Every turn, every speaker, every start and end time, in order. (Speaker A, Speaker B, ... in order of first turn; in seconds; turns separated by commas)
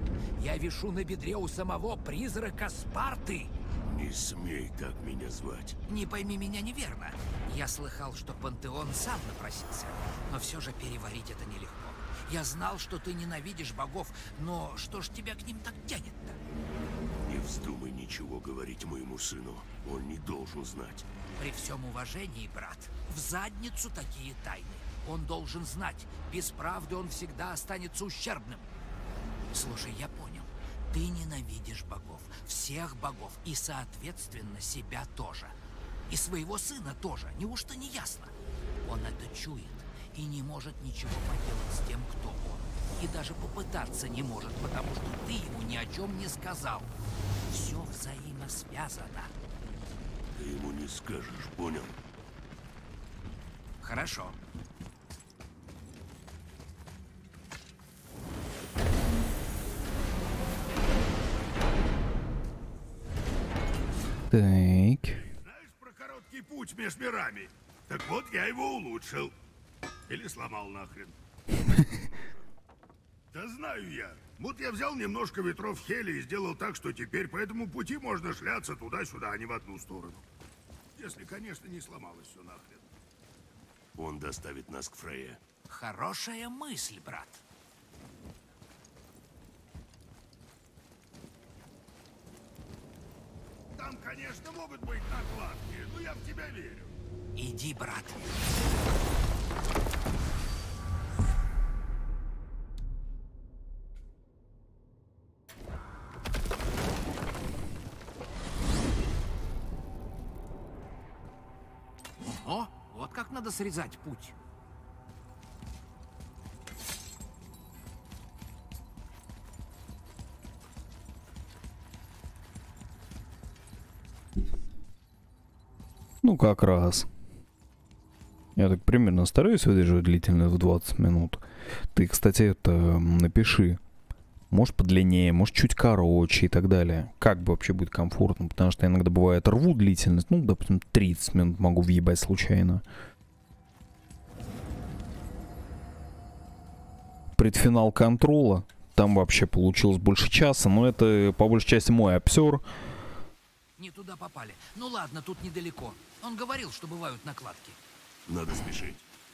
Speaker A: 0.4-3.5, Speaker B: 3.8-5.8, Speaker A: 5.9-16.4, Speaker B: 17.2-21.1, Speaker A: 21.4-28.7, Speaker A: 29.5-35.5, Speaker A: 36.1-46.9, Speaker A: 47.5-49.3, Speaker B: 50.3-52.0, Speaker A: 53.8-54.4, Speaker C: 64.3-65.2, Speaker D: 65.2-69.3, Speaker D: 70.1-71.2, Speaker D: 73.3-80.3, Speaker D: 81.0-82.9, Speaker B: 84.0-85.4, Speaker A: 85.7-87.4, Speaker D: 93.7-97.0, Speaker A: 97.4-98.2, Speaker A: 112.3-114.3, Speaker C: 126.2-127.1, Speaker C: 128.6-131.4, Speaker C: 131.9-133.8, Speaker C: 134.5-142.8, Speaker C: 147.4-152.7, Speaker A: 153.8-157.8, Speaker B: 158.3-159.1